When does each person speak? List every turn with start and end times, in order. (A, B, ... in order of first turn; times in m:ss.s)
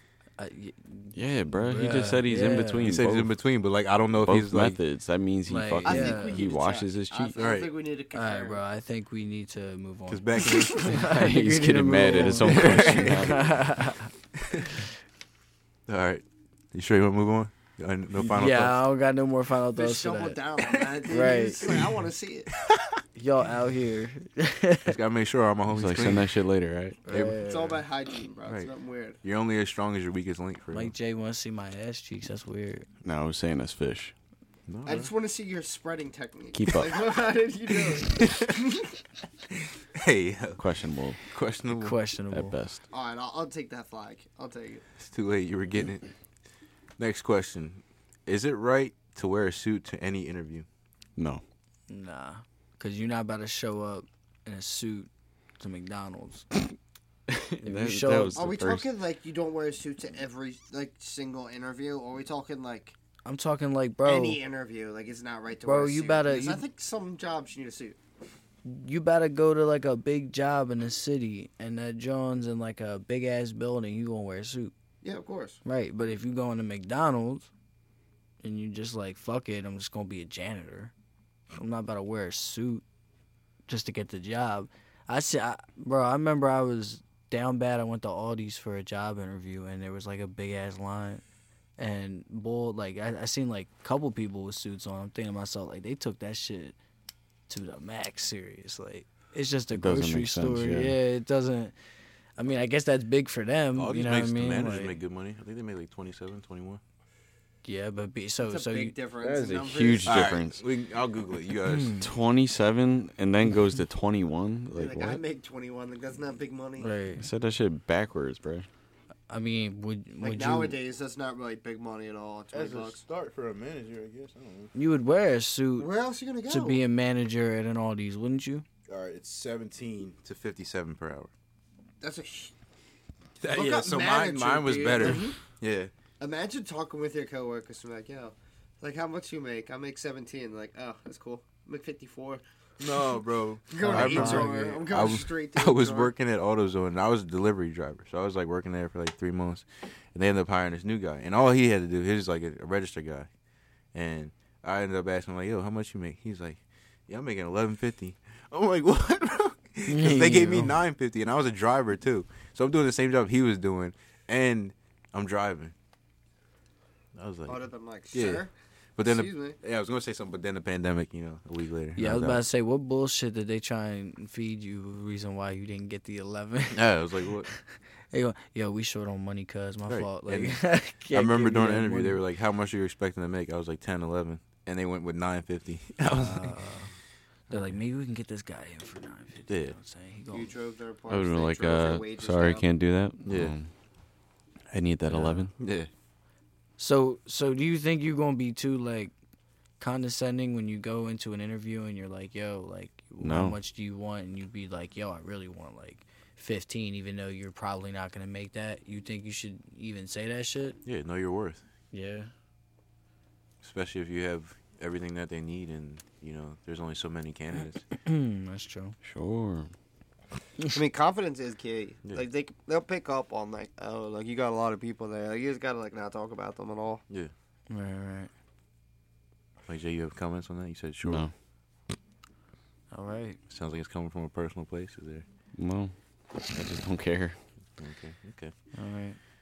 0:00.4-0:02.9 A
0:01.1-0:03.3 B
0:02.8-0:04.8 C
0:04.2-0:07.4 B
0:05.5-0:06.4 A
0:05.8-0:08.6 D
0:07.4-0:07.7 C
0:08.1-0:14.1 A
0:10.1-0:10.9 C
0:10.4-0:11.0 D
0:11.0-0:13.5 B
0:12.4-0:13.4 C
0:14.4-0:14.7 C
0:15.9-0:18.8 C
0:18.2-0:20.4 A
0:19.8-0:22.5 D
0:21.1-0:21.6 A
0:21.7-0:22.0 C
0:22.5-0:23.0 C
0:23.2-0:25.0 A
0:24.8-0:26.3 C
0:25.7-0:27.0 B
0:27.1-0:27.8 A
0:27.1-0:27.4 C
0:27.3-0:29.2 D
0:29.2-0:30.9 C
0:30.7-0:32.9 A
0:33.0-0:34.1 B
0:34.7-0:35.1 C
0:34.8-0:39.0 D
0:36.5-0:37.0 B
0:38.2-0:38.5 C
0:39.9-0:40.6 C
0:40.6-0:41.2 B
0:41.3-0:42.0 C
0:41.8-0:42.6 A
0:42.3-0:42.8 B
0:42.9-0:44.9 D
0:45.0-0:46.1 C
0:47.0-0:50.7 C
0:51.2-0:51.4 B
0:51.9-0:56.5 A
0:57.6-0:58.4 A
0:57.6-0:58.9 B
0:58.4-1:03.0 D
1:03.2-1:04.4 A
1:04.0-1:08.0 D
1:05.6-1:06.6 A
1:08.6-1:14.7 A
1:15.0-1:15.6 D
1:15.6-1:17.5 A
1:18.4-1:20.9 A
1:21.5-1:22.8 A
1:23.7-1:31.2 A
1:31.8-1:36.8 A
1:37.5-1:41.7 A
1:39.7-1:41.0 B
1:42.4-1:45.0 A
1:43.8-1:46.8 C
1:47.6-1:49.0 A
1:48.4-1:50.2 D
1:49.2-1:50.6 B
1:50.0-1:52.0 C
1:51.7-1:52.0 A
1:52.0-1:55.2 B
1:54.8-1:56.9 D
1:56.8-1:57.3 A
1:57.2-1:58.7 B
1:59.3-2:00.8 A
2:00.2-2:03.0 D
2:02.5-2:04.7 C
2:04.8-2:05.9 A
2:05.8-2:06.8 D
2:06.5-2:08.6 A
2:08.9-2:11.3 C
2:12.0-2:12.5 D
2:13.4-2:15.9 C
2:13.5-2:15.4 D
2:16.2-2:22.4 D
2:22.8-2:33.3 C
2:23.7-2:26.1 D
2:23.8-2:24.8 A
2:33.9-2:45.7 C
2:39.9-2:40.8 A
2:47.2-2:48.5 C
2:47.5-2:48.5 D
2:49.0-2:52.4 C
2:49.0-2:49.6 D
2:52.0-3:02.2 A
2:56.7-2:57.5 C
2:59.9-3:00.6 C
3:01.1-3:06.6 C
3:06.1-3:06.9 A
3:07.5-3:10.5 A
3:09.5-3:09.8 C
3:10.3-3:12.7 D
3:11.1-3:13.7 B
3:13.3-3:13.5 C
3:14.7-3:15.5 B
3:15.1-3:15.5 A
3:15.6-3:15.9 C
3:16.8-3:19.1 A
3:19.8-3:30.8 A
3:23.2-3:23.6 B
3:30.8-3:31.6 C
3:31.9-3:32.3 A
3:33.6-3:37.8 C
3:38.0-3:39.0 A
3:39.0-3:39.7 B
3:40.7-3:47.0 D
3:47.7-3:48.3 A
3:49.7-3:51.3 C
3:51.0-3:51.3 B
3:52.9-3:53.4 A
3:53.5-3:55.2 C
3:55.6-3:55.9 B
3:56.4-3:57.4 B
3:57.8-3:58.5 C
3:58.7-3:59.2 A